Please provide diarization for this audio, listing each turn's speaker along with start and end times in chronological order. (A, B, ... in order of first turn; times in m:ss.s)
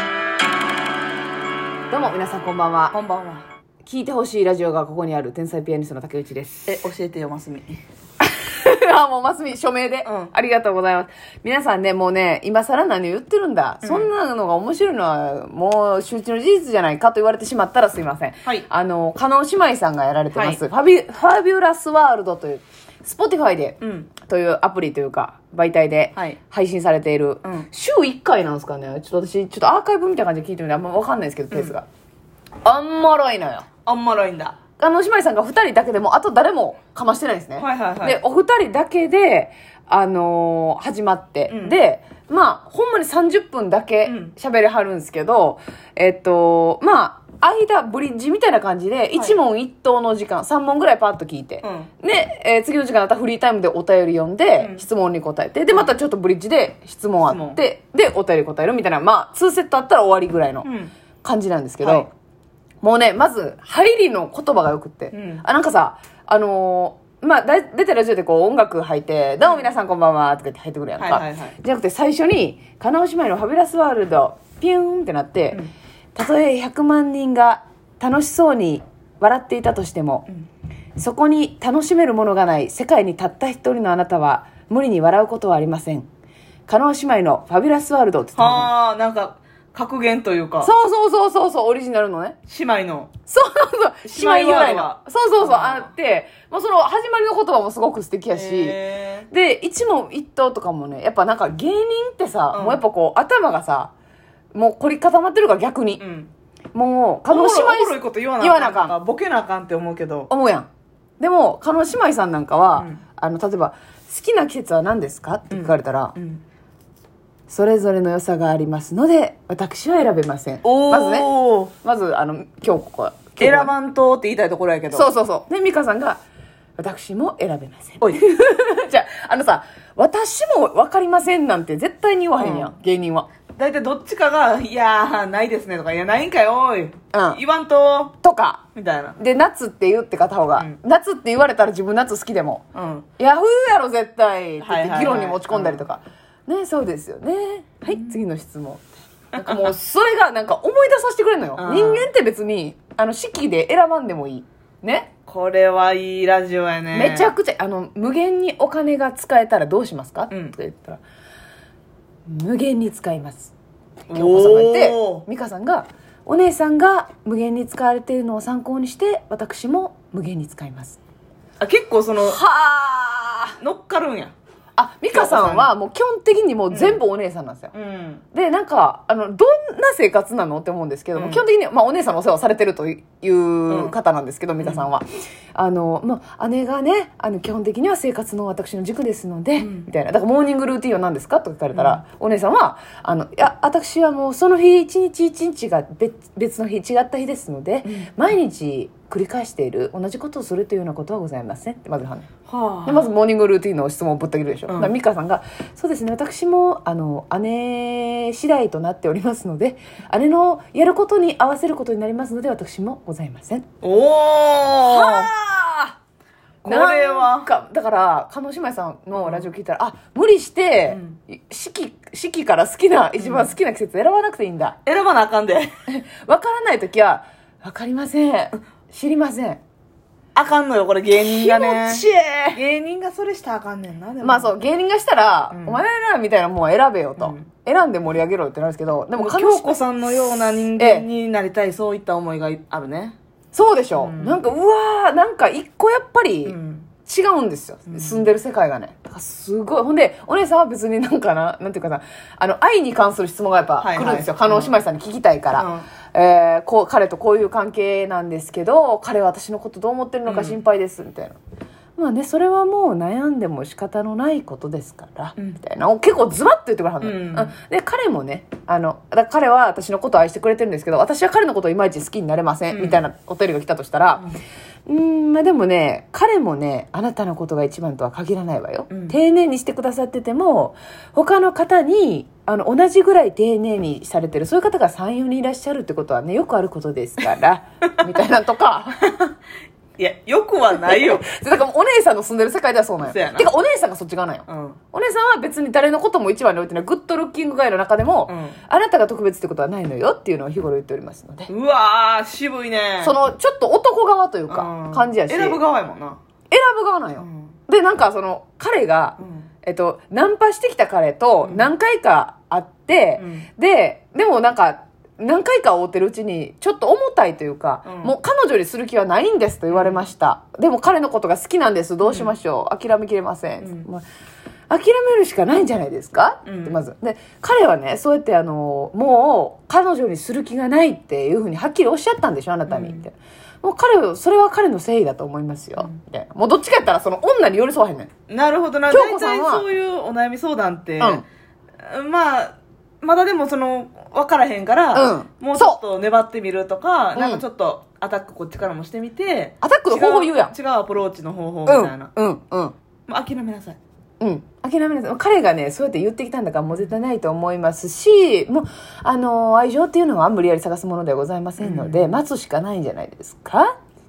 0:01.9-0:03.0 A
0:02.9-0:03.5 B
0:03.8-0:06.8 A
0:06.7-0:07.8 B
0:08.2-0:31.9 A
0:10.0-0:10.3 B
0:13.8-0:14.1 B
0:20.3-0:20.6 B
0:23.8-0:24.1 B
0:32.6-0:33.7 A
0:33.8-0:34.6 B
0:34.8-1:00.7 A
0:37.6-0:38.2 B
0:41.5-0:41.8 B
0:44.0-0:44.3 B
0:51.6-0:51.9 B
0:54.6-0:54.8 B
0:57.3-0:57.6 B
1:00.6-1:00.9 B
1:01.2-1:02.1 A
1:01.8-1:02.1 B
1:02.8-1:15.6 A
1:05.1-1:05.4 B
1:09.4-1:09.7 B
1:11.0-1:11.6 B
1:16.2-1:20.3 A
1:21.0-1:26.1 A
1:26.7-1:28.7 A
1:28.4-1:30.7 B
1:30.6-1:32.4 A
1:32.5-1:33.1 B
1:33.3-1:38.8 A
1:34.1-1:35.9 B
1:38.3-1:39.3 B
1:39.3-1:43.9 A
1:42.5-1:42.8 B
1:44.5-1:46.0 A
1:46.0-1:46.3 B
1:46.7-1:49.0 A
1:47.3-1:50.3 B
1:50.3-1:50.7 A
1:51.2-1:56.1 A
1:52.7-1:53.0 B
1:55.5-1:56.4 B
1:57.5-2:03.7 A
2:00.6-2:01.7 B
2:03.4-2:05.1 B
2:04.9-2:06.2 A
2:06.8-2:13.3 A
2:12.4-2:12.7 B
2:13.6-2:18.2 B
2:17.1-2:17.4 A
2:18.2-2:18.6 A
2:18.8-2:19.2 B
2:19.2-2:22.6 A
2:22.7-2:23.1 B
2:23.2-2:35.1 A
2:24.6-2:25.9 B
2:31.6-2:32.1 B
2:35.3-2:37.3 B
2:36.9-2:41.0 A
2:42.3-2:43.5 A
2:44.1-2:45.3 B
2:44.1-2:51.0 A
2:51.6-2:52.4 B
2:52.2-2:53.6 A
2:53.6-2:54.3 B
2:54.8-2:57.7 A
2:55.1-2:55.7 B
2:56.7-2:57.0 B
2:57.7-2:58.2 B
2:58.3-3:22.3 A
3:01.2-3:01.4 B
3:03.7-3:04.0 B
3:04.6-3:04.9 B
3:09.6-3:09.9 B
3:11.7-3:12.0 B
3:17.8-3:18.1 B
3:22.5-3:23.1 B
3:22.9-3:33.7 A
3:33.8-3:35.3 B
3:34.9-3:36.0 A
3:36.6-3:37.5 B
3:36.7-3:44.8 A
3:39.2-3:39.5 B
3:40.9-3:41.2 B
3:43.2-3:43.6 B
3:44.8-3:45.7 B
3:45.9-3:49.6 A
3:50.4-3:54.6 B
3:51.2-3:52.6 A
3:54.2-3:59.8 A
3:55.5-3:55.8 B
3:57.2-3:57.5 B
3:59.1-4:03.2 B
4:00.8-4:01.1 A
4:03.5-4:21.4 A
4:03.9-4:04.4 B
4:06.4-4:06.9 B
4:07.9-4:08.3 B
4:13.8-4:14.7 B
4:15.6-4:15.9 B
4:20.3-4:20.6 B
4:22.0-4:34.3 A
4:27.0-4:27.5 B
4:32.7-4:33.0 B
4:34.9-4:49.2 A
4:38.9-4:39.2 B
4:49.0-4:49.3 B
4:50.0-4:51.3 B
4:50.8-5:01.5 A
4:53.1-4:53.5 B
4:54.5-4:54.8 B
4:58.3-4:58.6 B
5:01.5-5:03.2 B
5:03.0-5:05.6 A
5:04.5-5:06.2 B
5:06.5-5:24.0 A
5:07.2-5:07.5 B
5:09.2-5:09.5 B
5:11.4-5:11.7 B
5:13.2-5:13.5 B
5:17.8-5:18.1 B
5:19.7-5:20.0 B
5:22.0-5:22.4 B
5:23.6-5:23.9 B
5:24.7-5:38.1 A
5:26.4-5:26.8 B
5:32.7-5:33.0 B
5:38.3-5:41.2 B
5:38.9-5:39.7 A
5:41.8-5:52.1 B
5:44.9-5:45.8 A
5:47.2-5:47.4 A
5:49.6-5:50.5 A
5:51.7-5:52.8 A
5:53.1-5:53.8 B
5:54.2-6:03.8 A
6:01.6-6:02.2 B